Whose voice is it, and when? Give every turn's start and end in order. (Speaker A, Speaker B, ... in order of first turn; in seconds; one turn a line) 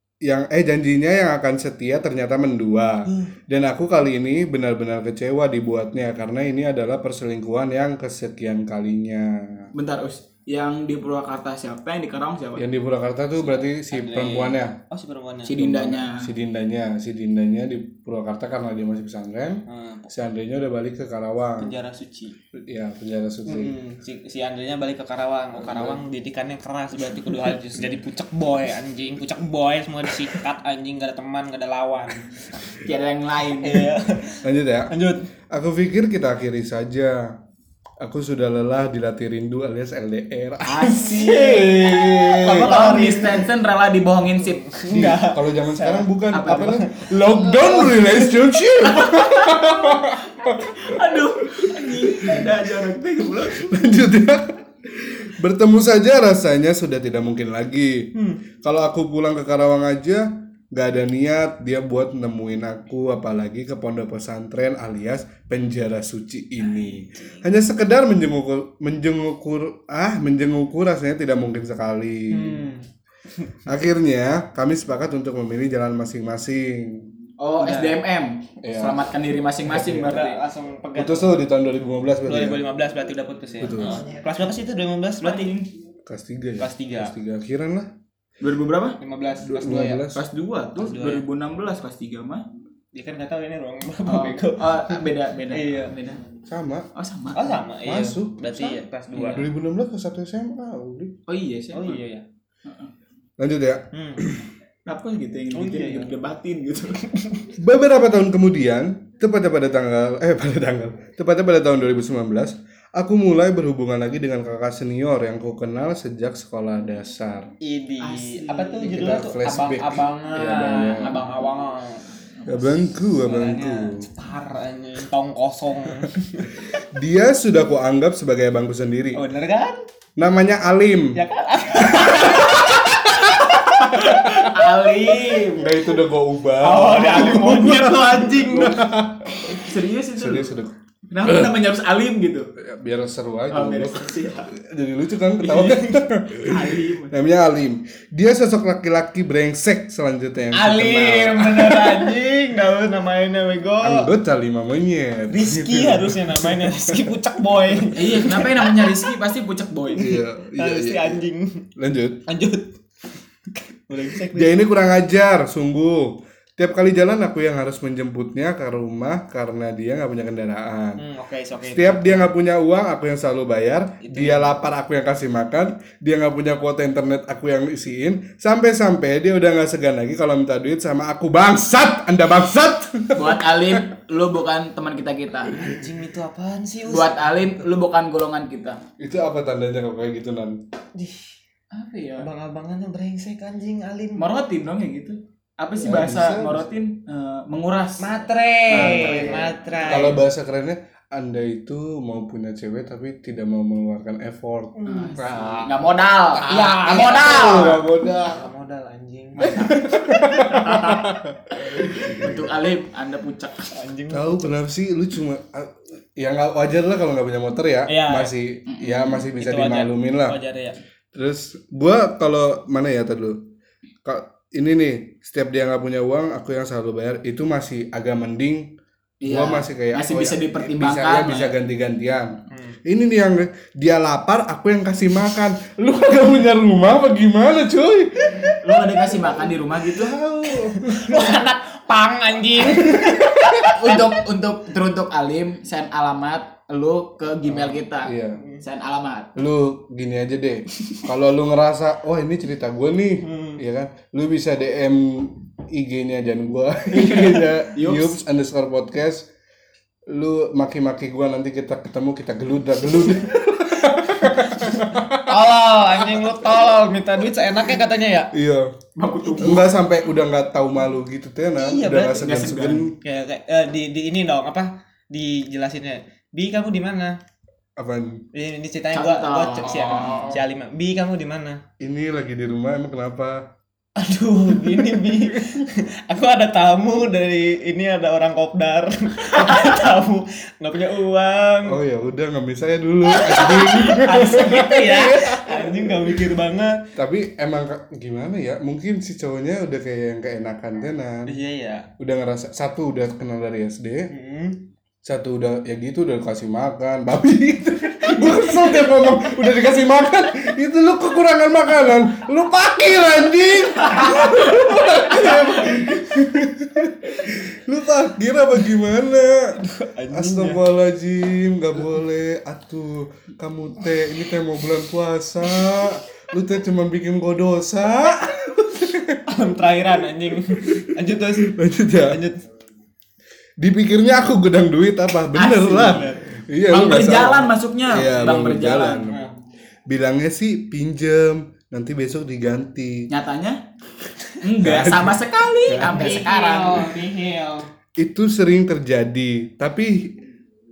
Speaker A: 0.2-9.7
Speaker B: 9.7-12.7
Speaker A: 12.6-14.8
Speaker C: 13.4-15.6
Speaker B: 15.4-16.3
Speaker A: 15.6-21.7
Speaker C: 19.7-20.1
Speaker C: 21.6-22.4
Speaker A: 22.5-23.7
Speaker C: 23.5-32.8
Speaker A: 25.5-26.0
Speaker B: 32.8-33.9
Speaker C: 33.6-35.2
Speaker A: 34.4-34.9
Speaker A: 35.5-37.4
Speaker A: 38.0-42.7
Speaker B: 40.6-44.7
Speaker C: 40.9-43.5
Speaker C: 44.4-48.1
Speaker A: 44.9-50.9
Speaker B: 46.3-46.8
Speaker B: 48.8-53.7
Speaker A: 51.5-52.4
Speaker A: 53.5-72.6
Speaker C: 58.1-58.4
Speaker C: 66.7-67.4
Speaker C: 72.3-72.8
Speaker A: 73.7-77.1
Speaker B: 77.4-80.4
Speaker C: 77.6-78.0
Speaker A: 78.6-79.0
Speaker A: 79.7-80.1
Speaker C: 79.9-81.5
Speaker A: 81.0-82.6
Speaker C: 82.2-85.6
Speaker A: 83.6-84.0
Speaker B: 85.2-85.7
Speaker A: 86.0-87.9
Speaker C: 86.6-87.1
Speaker B: 88.4-92.5
Speaker C: 89.0-90.0
Speaker A: 89.5-90.2
Speaker C: 90.8-91.2
Speaker C: 92.9-95.9
Speaker B: 94.0-96.2
Speaker A: 96.5-96.9
Speaker B: 96.9-97.7
Speaker C: 97.3-99.5
Speaker A: 97.8-98.6
Speaker B: 98.5-99.4
Speaker A: 99.2-101.1
Speaker B: 101.3-102.0
Speaker C: 101.7-102.2
Speaker B: 102.6-102.9
Speaker A: 103.4-104.5
Speaker C: 103.9-104.2
Speaker B: 104.8-107.0
Speaker C: 105.5-106.1
Speaker C: 107.1-107.4
Speaker A: 107.6-117.5
Speaker C: 117.6-122.0
Speaker B: 118.0-119.2
Speaker A: 118.8-121.2
Speaker B: 120.9-121.4
Speaker B: 122.4-122.7
Speaker A: 122.5-124.1
Speaker C: 123.2-126.6
Speaker A: 126.8-129.2
Speaker C: 129.1-129.8
Speaker A: 130.2-131.2
Speaker C: 131.1-135.5
Speaker A: 131.8-134.5
Speaker B: 131.9-132.9
Speaker B: 133.5-135.8
Speaker A: 135.6-139.6
Speaker C: 136.6-138.8
Speaker B: 136.8-138.9
Speaker B: 139.4-140.6
Speaker A: 140.2-140.7
Speaker B: 141.1-142.5
Speaker A: 142.6-151.8
Speaker B: 143.5-144.5
Speaker C: 145.4-146.0
Speaker B: 146.4-147.2
Speaker C: 150.5-154.1
Speaker B: 151.6-152.0
Speaker A: 153.8-157.1
Speaker C: 155.3-159.0
Speaker B: 157.9-160.1
Speaker C: 159.9-161.6
Speaker A: 159.9-161.2
Speaker A: 161.8-162.2
Speaker C: 162.3-162.8
Speaker C: 163.5-164.6
Speaker A: 164.3-171.0
Speaker C: 171.0-172.3
Speaker A: 171.6-183.8
Speaker C: 174.0-174.6
Speaker B: 183.1-185.6
Speaker C: 185.5-187.2
Speaker B: 186.9-188.8
Speaker A: 189.0-190.6
Speaker C: 190.9-191.3
Speaker B: 191.7-192.3
Speaker C: 192.2-194.3
Speaker B: 194.2-199.6
Speaker A: 195.8-196.7
Speaker C: 198.0-200.2
Speaker A: 198.7-205.8
Speaker C: 204.8-205.4
Speaker B: 204.8-207.8
Speaker A: 206.3-208.4
Speaker C: 206.5-209.7
Speaker B: 209.4-211.1
Speaker A: 209.4-212.3
Speaker C: 210.5-210.9
Speaker B: 211.8-213.7
Speaker C: 213.7-214.6
Speaker A: 214.1-220.4
Speaker C: 217.9-218.3
Speaker B: 218.7-219.1
Speaker C: 219.1-220.8
Speaker A: 221.1-223.4
Speaker A: 224.0-228.7
Speaker B: 229.2-231.5
Speaker A: 229.2-239.3
Speaker C: 232.5-232.8
Speaker B: 238.6-240.2
Speaker A: 239.8-241.2
Speaker C: 240.5-244.2
Speaker A: 242.8-243.6
Speaker B: 243.7-249.3
Speaker A: 248.0-248.4
Speaker A: 249.3-259.3
Speaker C: 253.2-253.6
Speaker B: 256.9-258.2
Speaker A: 260.1-265.4
Speaker C: 263.9-268.3
Speaker A: 265.9-266.4
Speaker A: 268.3-268.7
Speaker B: 268.9-269.8
Speaker A: 269.4-272.9
Speaker C: 271.6-277.1
Speaker B: 271.9-272.8
Speaker A: 277.8-278.2
Speaker C: 278.3-281.6
Speaker B: 278.9-280.4
Speaker A: 281.8-283.4
Speaker C: 284.0-291.8
Speaker A: 284.8-285.0
Speaker A: 291.6-296.2
Speaker C: 293.1-296.8
Speaker B: 294.1-294.8
Speaker A: 296.9-301.3
Speaker C: 301.2-301.9
Speaker A: 302.0-304.1
Speaker C: 304.1-304.6
Speaker A: 305.0-329.2
Speaker B: 314.0-314.3
Speaker C: 319.6-320.6
Speaker C: 325.5-325.9
Speaker C: 329.3-331.5
Speaker A: 330.5-332.2
Speaker C: 332.1-332.4
Speaker A: 333.6-339.2
Speaker B: 335.3-336.1
Speaker C: 335.7-336.2
Speaker B: 336.7-339.1
Speaker C: 338.2-339.3
Speaker A: 339.9-343.1
Speaker B: 343.1-343.6
Speaker B: 344.4-346.9
Speaker A: 344.6-346.2
Speaker C: 345.8-347.7
Speaker A: 348.0-350.2